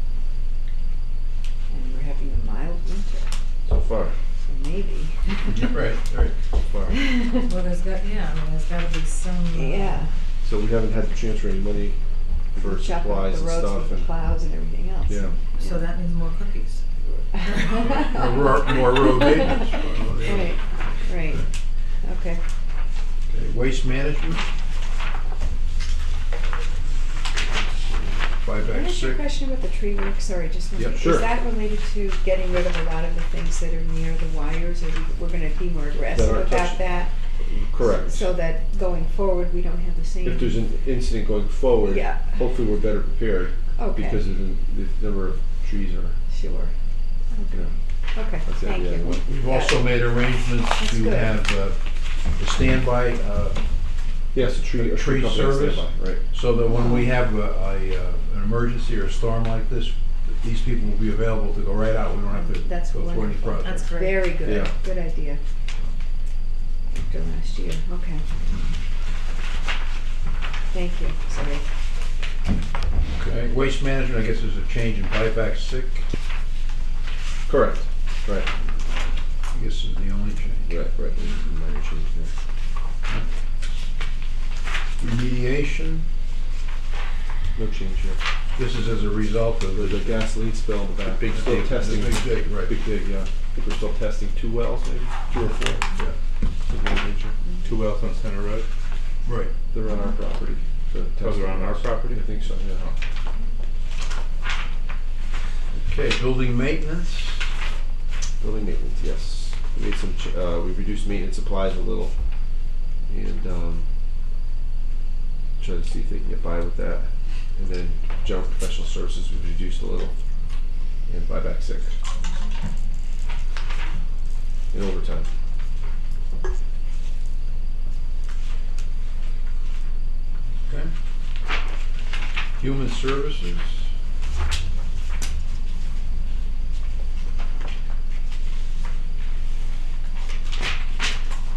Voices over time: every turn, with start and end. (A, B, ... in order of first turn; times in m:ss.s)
0:01.7-0:03.3 A
0:03.6-0:04.2 B
0:04.4-0:05.6 A
0:05.4-0:06.3 C
0:06.6-0:07.0 B
0:07.0-0:07.4 A
0:07.4-0:10.1 D
0:09.5-0:10.1 A
0:10.4-0:14.2 B
0:12.5-0:15.8 A
0:15.1-0:15.3 B
0:15.6-0:16.8 D
0:17.4-0:18.2 A
0:17.4-0:18.1 D
0:18.0-0:21.5 C
0:20.2-0:21.4 A
0:22.0-0:22.4 A
0:23.3-0:24.4 C
0:27.5-0:29.3 C
0:28.7-0:37.1 A
0:30.7-0:31.1 C
0:30.9-0:31.3 B
0:36.1-0:38.3 B
0:37.8-0:40.6 A
0:40.2-0:46.2 B
0:41.8-0:42.4 A
0:43.8-0:44.2 A
0:46.3-0:46.7 A
0:47.2-0:49.8 A
0:47.5-0:49.2 B
0:49.0-1:03.8 C
0:50.8-0:51.3 A
0:54.3-0:56.2 B
0:56.7-0:57.1 A
1:02.3-1:05.4 A
1:03.6-1:04.4 D
1:04.4-1:04.7 B
1:06.9-1:08.2 A
1:10.7-1:11.6 A
1:13.1-1:16.1 C
1:17.5-1:18.5 B
1:19.5-1:20.8 C
1:20.7-1:22.4 B
1:25.0-1:26.1 C
1:27.5-1:28.2 B
1:28.6-1:30.2 C
1:29.7-1:35.9 B
1:31.3-1:32.7 C
1:35.9-1:36.2 C
1:36.6-1:37.4 B
1:37.6-1:38.7 E
1:39.2-1:39.5 C
1:39.7-1:43.0 B
1:41.2-1:42.2 E
1:45.7-1:47.5 C
1:48.4-1:53.9 B
1:55.6-2:00.1 B
2:01.0-2:02.0 B
2:04.7-2:05.3 B
2:10.6-2:10.9 C
2:12.6-2:13.9 C